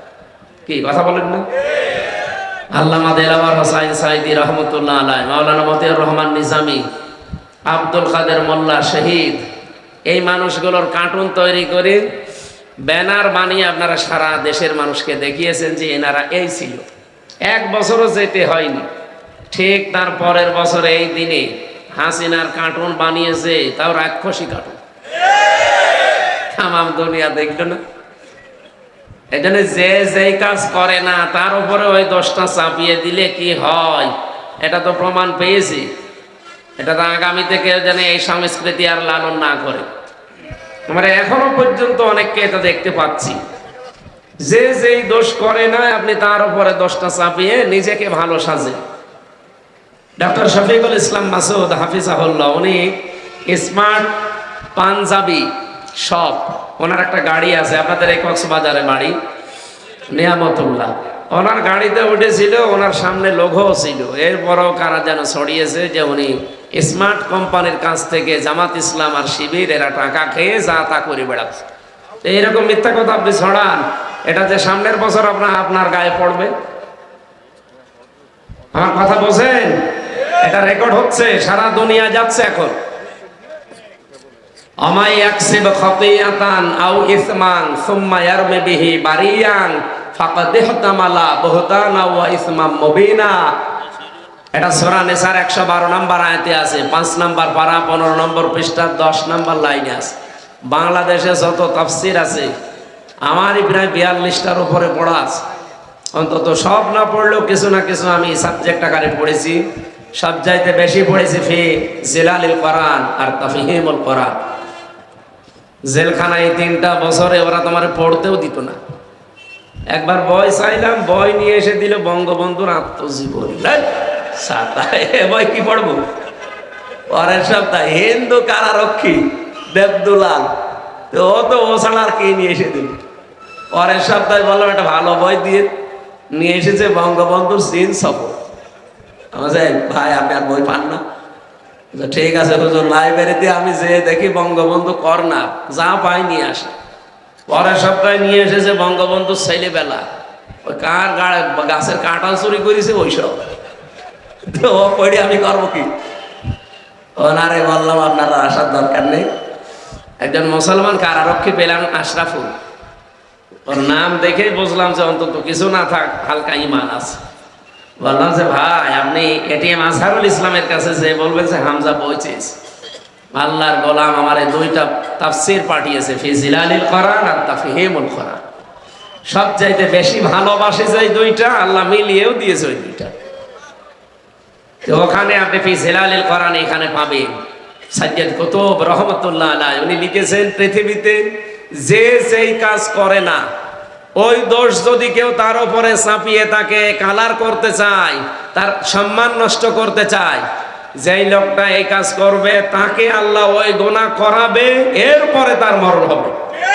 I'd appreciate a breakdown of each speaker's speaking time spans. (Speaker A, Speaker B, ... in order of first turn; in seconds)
Speaker A: 0.7-1.4, 2.7-6.8, 7.7-9.4, 10.1-12.1, 12.8-16.9, 17.5-18.9, 19.5-24.8, 26.5-27.8, 29.3-35.9, 36.8-39.9, 40.9-43.4, 44.4-48.8, 50.2-53.0, 53.5-54.2, 54.7-59.1, 60.1-71.6, 72.2-76.5, 78.7-79.8, 80.4-82.7, 84.8-93.5, 94.5-100.2, 100.7-102.5, 103.2-105.4, 106.1-109.6, 110.2-114.3, 115.9-118.8, 119.9-126.0, 127.1-130.5, 131.1-133.0, 133.7-135.7, 136.3-138.3, 139.3-141.0, 141.9-146.7, 147.5-150.0, 150.6-153.4, 154.4-155.9, 157.2-159.3, 160.2-162.5, 163.7-167.2, 168.0-172.5, 173.3-178.4, 179.3-183.1, 184.8-187.3, 187.9-191.2, 191.7-193.4, 194.2-200.4, 201.0-206.3